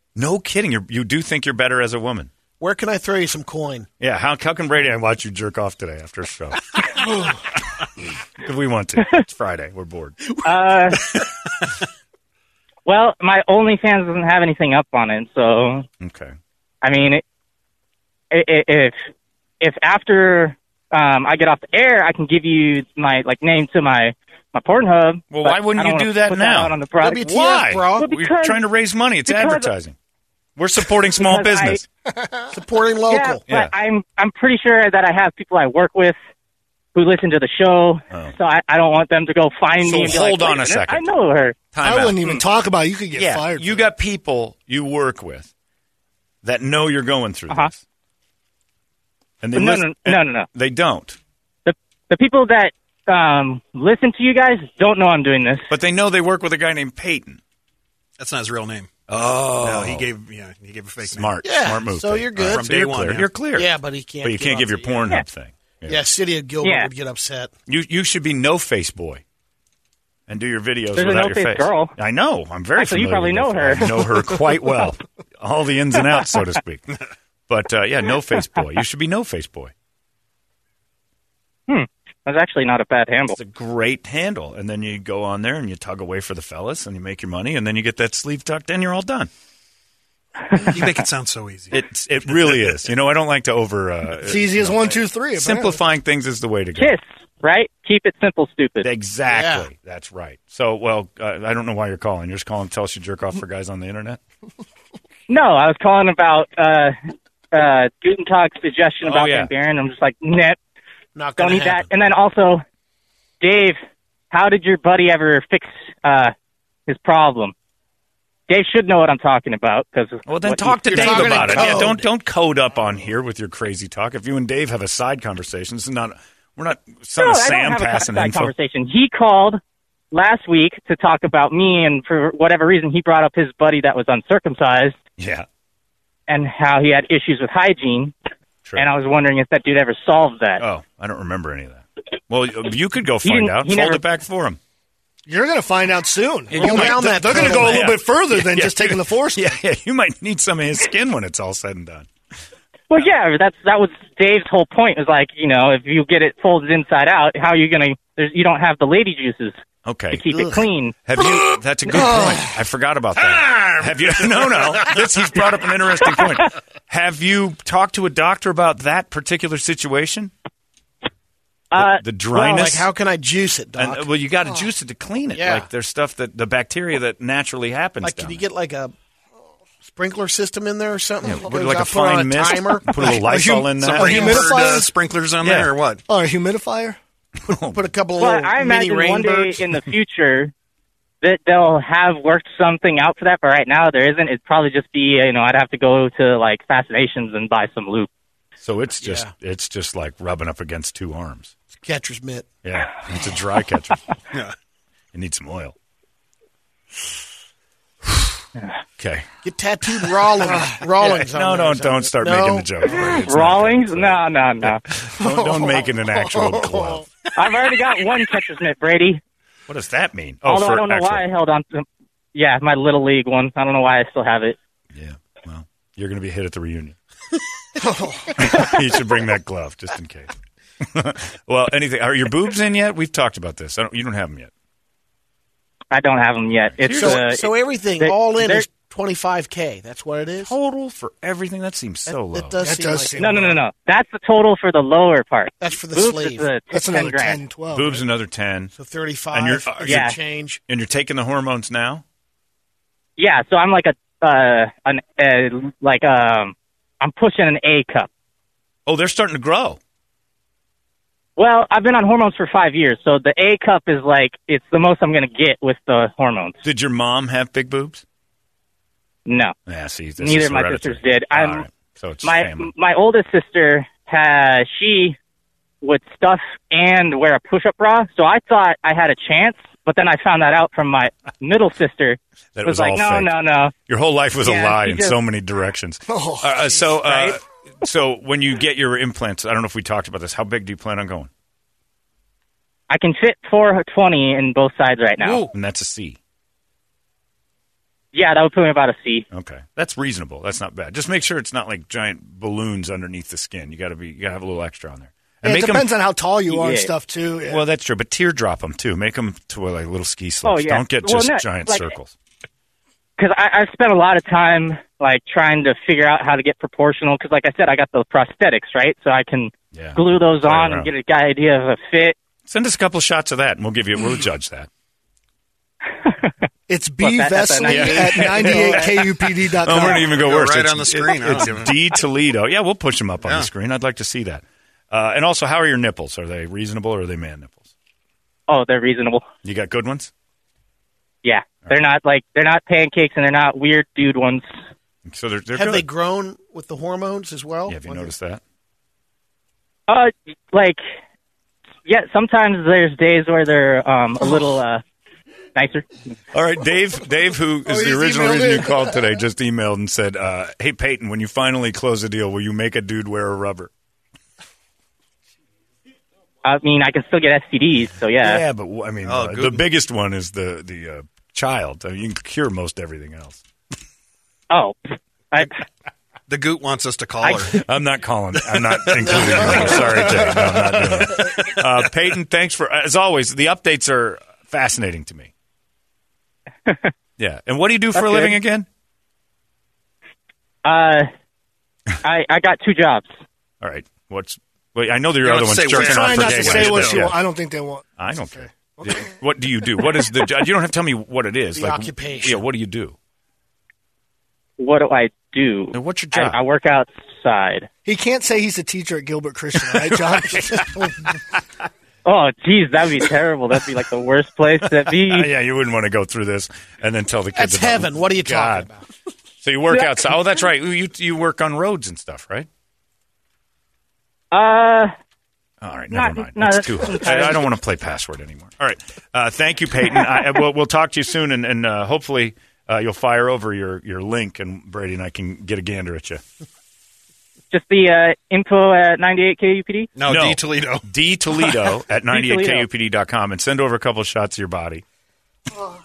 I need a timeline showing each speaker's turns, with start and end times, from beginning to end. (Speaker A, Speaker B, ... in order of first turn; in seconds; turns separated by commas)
Speaker A: 0.1-2.3, Speaker B: 2.6-3.9, Speaker A: 4.0-7.0, Speaker A: 8.3-10.3, Speaker C: 10.4-11.1, Speaker C: 12.8-15.9, Speaker A: 16.0-16.3, Speaker C: 16.8-17.2, Speaker C: 18.3-19.0, Speaker C: 19.6-27.2, Speaker A: 25.3-29.9, Speaker B: 27.0-28.1, Speaker C: 27.9-28.6, Speaker C: 29.3-29.7, Speaker A: 30.6-31.8, Speaker C: 31.2-31.8, Speaker D: 32.1-32.4, Speaker B: 32.5-33.4, Speaker C: 33.1-36.2, Speaker C: 36.9-41.6, Speaker A: 39.8-41.0, Speaker A: 41.7-42.2, Speaker D: 41.8-43.9, Speaker A: 43.1-45.5, Speaker A: 46.4-47.8, Speaker A: 49.4-51.2, Speaker C: 49.5-50.5, Speaker C: 51.6-55.7, Speaker A: 55.7-57.4, Speaker E: 58.2-58.9, Speaker A: 59.1-60.1, Speaker E: 59.6-61.4, Speaker A: 61.0-66.0, Speaker B: 61.4-62.7, Speaker E: 62.5-63.3, Speaker B: 63.5-64.9, Speaker B: 65.8-67.5, Speaker C: 66.6-66.9, Speaker A: 67.7-69.2, Speaker A: 70.3-79.7, Speaker C: 70.9-71.9, Speaker C: 72.8-74.0, Speaker C: 81.7-83.4, Speaker A: 83.4-89.3, Speaker E: 90.5-91.8, Speaker A: 91.7-97.0, Speaker D: 94.2-95.8, Speaker C: 96.8-98.9, Speaker A: 98.8-104.2, Speaker B: 99.3-99.7, Speaker C: 105.3-107.0, Speaker C: 107.5-110.6, Speaker A: 109.0-109.5, Speaker B: 111.1-111.9, Speaker C: 111.4-112.6, Speaker C: 113.4-113.8, Speaker C: 114.3-116.3, Speaker C: 116.9-117.5, Speaker C: 118.5-121.8, Speaker A: 120.3-128.5, Speaker B: 120.8-122.1, Speaker C: 127.2-129.6, Speaker C: 130.1-135.0, Speaker A: 135.2-135.4, Speaker C: 136.3-138.1, Speaker C: 138.8-140.6, Speaker A: 140.6-144.6, Speaker C: 143.2-144.0, Speaker D: 145.2-149.5, Speaker A: 146.5-152.1, Speaker B: 146.5-148.0, Speaker C: 152.9-159.6, Speaker A: 159.8-170.3, Speaker C: 160.1-160.9, Speaker C: 171.7-172.0, Speaker A: 171.8-172.9, Speaker B: 172.3-174.1, Speaker A: 173.8-178.4, Speaker B: 175.3-175.7, Speaker B: 178.0-178.9, Speaker B: 179.8-183.2, Speaker A: 181.2-184.6, Speaker D: 183.0-184.9, Speaker E: 183.8-186.0, Speaker A: 185.4-185.7, Speaker D: 186.1-187.0, Speaker A: 187.4-187.8, Speaker B: 187.7-189.6, Speaker C: 188.2-190.5, Speaker C: 191.2-198.1, Speaker A: 198.6-201.5, Speaker B: 199.0-199.3, Speaker B: 201.7-202.5, Speaker A: 202.6-204.1, Speaker A: 205.1-205.7, Speaker A: 208.1-208.3, Speaker A: 209.0-209.3, Speaker B: 209.4-213.1, Speaker A: 210.4-217.1, Speaker C: 212.9-214.8, Speaker B: 215.2-217.0, Speaker C: 217.3-219.2, Speaker A: 219.7-221.2, Speaker C: 220.4-224.6, Speaker A: 224.9-226.9, Speaker B: 227.8-228.7, Speaker A: 228.4-230.3, Speaker A: 230.8-234.5, Speaker C: 235.9-238.7, Speaker A: 236.8-237.2, Speaker B: 236.8-240.5, Speaker A: 240.4-242.6, Speaker B: 242.1-243.2, Speaker D: 242.6-243.6, Speaker C: 243.2-247.4, Speaker B: 245.6-246.5, Speaker D: 246.7-248.0, Speaker A: 247.7-248.7, Speaker B: 248.7-250.6, Speaker A: 249.3-250.1, Speaker C: 249.8-250.2, Speaker A: 250.7-252.0, Speaker C: 253.2-258.1, Speaker A: 258.9-259.8, Speaker C: 261.4-266.6, Speaker A: 266.6-268.0, Speaker C: 269.2-269.5, Speaker A: 269.6-272.7, Speaker C: 270.2-271.6, Speaker C: 272.2-275.2, Speaker C: 275.8-283.7, Speaker A: 282.5-283.3, Speaker A: 283.9-291.3, Speaker C: 284.4-285.1, Speaker D: 286.1-286.8, Speaker C: 287.1-287.4, Speaker C: 292.9-295.5, Speaker A: 295.5-296.2, Speaker C: 298.1-299.2, Speaker A: 299.3-305.9, Speaker D: 305.4-307.6, Speaker C: 306.5-306.9, Speaker A: 307.5-312.1, Speaker C: 310.4-311.9, Speaker C: 313.2-322.1, Speaker A: 319.7-320.9, Speaker A: 322.4-324.7, Speaker C: 326.0-326.3, Speaker D: 326.7-330.1, Speaker C: 327.0-328.9, Speaker A: 327.6-337.7, Speaker E: 330.0-331.8, Speaker E: 333.2-333.5, Speaker C: 338.5-339.2, Speaker A: 339.4-340.1, Speaker C: 341.2-344.5, Speaker A: 345.1-345.9, Speaker B: 345.5-348.1, Speaker A: 347.7-348.4, Speaker C: 349.9-350.8, Speaker C: 351.9-354.8, Speaker C: 355.5-355.9, Speaker A: 356.3-363.7, Speaker D: 357.6-359.0, Speaker C: 366.4-368.4, Speaker A: 368.2-373.4, Speaker E: 369.0-369.6, Speaker C: 374.5-375.6, Speaker E: 376.3-377.6, Speaker C: 377.2-377.6, Speaker A: 377.6-385.3, Speaker E: 378.4-379.1, Speaker B: 379.1-380.4, Speaker C: 386.7-386.9, Speaker A: 387.2-388.7, Speaker C: 387.9-388.4, Speaker C: 390.6-391.1, Speaker C: 392.0-393.1, Speaker A: 393.6-397.2, Speaker E: 395.2-397.0, Speaker D: 395.7-399.0, Speaker A: 398.0-402.9, Speaker B: 401.5-402.4, Speaker C: 404.6-407.7, Speaker A: 405.7-406.4, Speaker D: 407.8-411.0, Speaker A: 410.1-411.1, Speaker C: 412.0-415.3, Speaker A: 414.9-418.7, Speaker B: 417.3-418.8, Speaker A: 419.4-422.5, Speaker C: 424.3-424.9, Speaker A: 425.6-436.2, Speaker C: 425.9-427.5, Speaker C: 437.5-439.9, Speaker E: 439.9-440.9, Speaker A: 440.1-444.8, Speaker C: 442.1-442.7